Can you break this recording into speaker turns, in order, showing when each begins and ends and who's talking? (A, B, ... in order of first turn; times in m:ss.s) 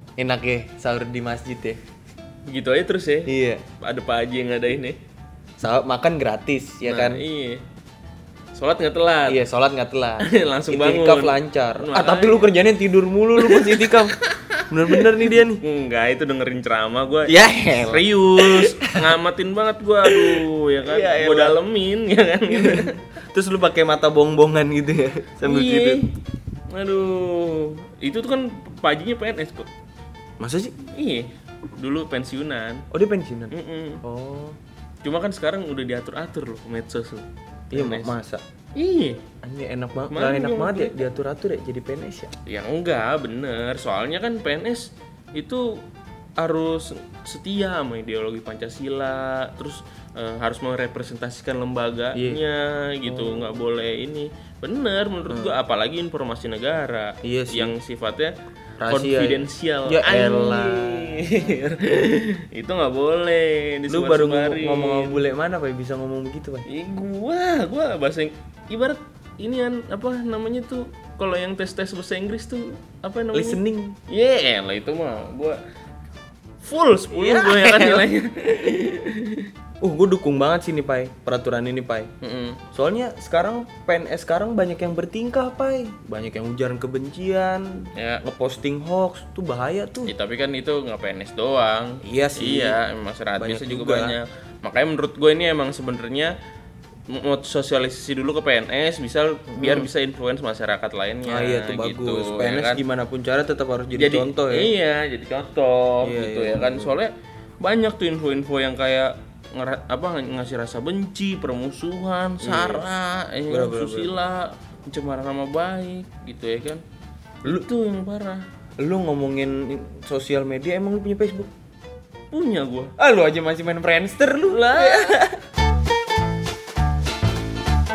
0:00.2-0:01.8 A
0:02.5-0:05.0 B
0:03.3-0:03.6 A
0:05.6-0:07.2 A
0:06.8-0:07.6 B
0:08.5-0:09.4 B
0:09.3-0:14.1 A
0:10.2-0:12.5 B
0:13.4-0:23.0 B
0:14.7-0:15.6 A
0:17.3-0:19.2 A
0:20.0-0:21.6 A
0:22.5-0:26.0 A
0:25.4-0:26.2 B
0:26.7-0:29.7 B
0:30.4-0:30.7 A
0:30.9-0:32.8 B
0:32.9-0:34.6 A
0:33.5-0:34.0 B
0:35.0-0:38.2 B
0:37.7-0:38.4 A
0:38.7-0:39.2 B
0:39.4-0:42.3 A
0:40.1-0:41.0 B
0:42.4-0:45.8 B
0:46.4-0:58.3 B
0:52.1-0:52.4 A
0:53.0-0:53.6 A
0:55.3-0:55.6 A
0:57.2-0:57.7 A
0:58.8-1:01.2 A
0:58.9-1:05.2 B
1:03.9-1:06.6 A
1:06.7-1:15.6 B
1:13.3-1:14.0 A
1:16.6-1:19.5 B
1:17.1-1:18.1 A
1:19.8-1:22.1 A
1:22.2-1:22.6 B
1:22.7-1:30.1 A
1:27.9-1:28.2 B
1:30.0-1:36.3 B
1:32.0-1:32.8 A
1:33.4-1:34.2 A
1:37.1-1:42.8 B
1:39.5-1:39.9 A
1:41.2-1:44.7 A
1:43.9-1:56.8 B
1:46.0-1:47.0 A
1:52.4-1:52.8 A
1:53.5-1:54.2 A
1:57.4-1:58.4 B
1:58.8-2:01.5 A
2:02.3-2:02.9 B
2:03.0-2:05.3 A
2:04.5-2:05.2 B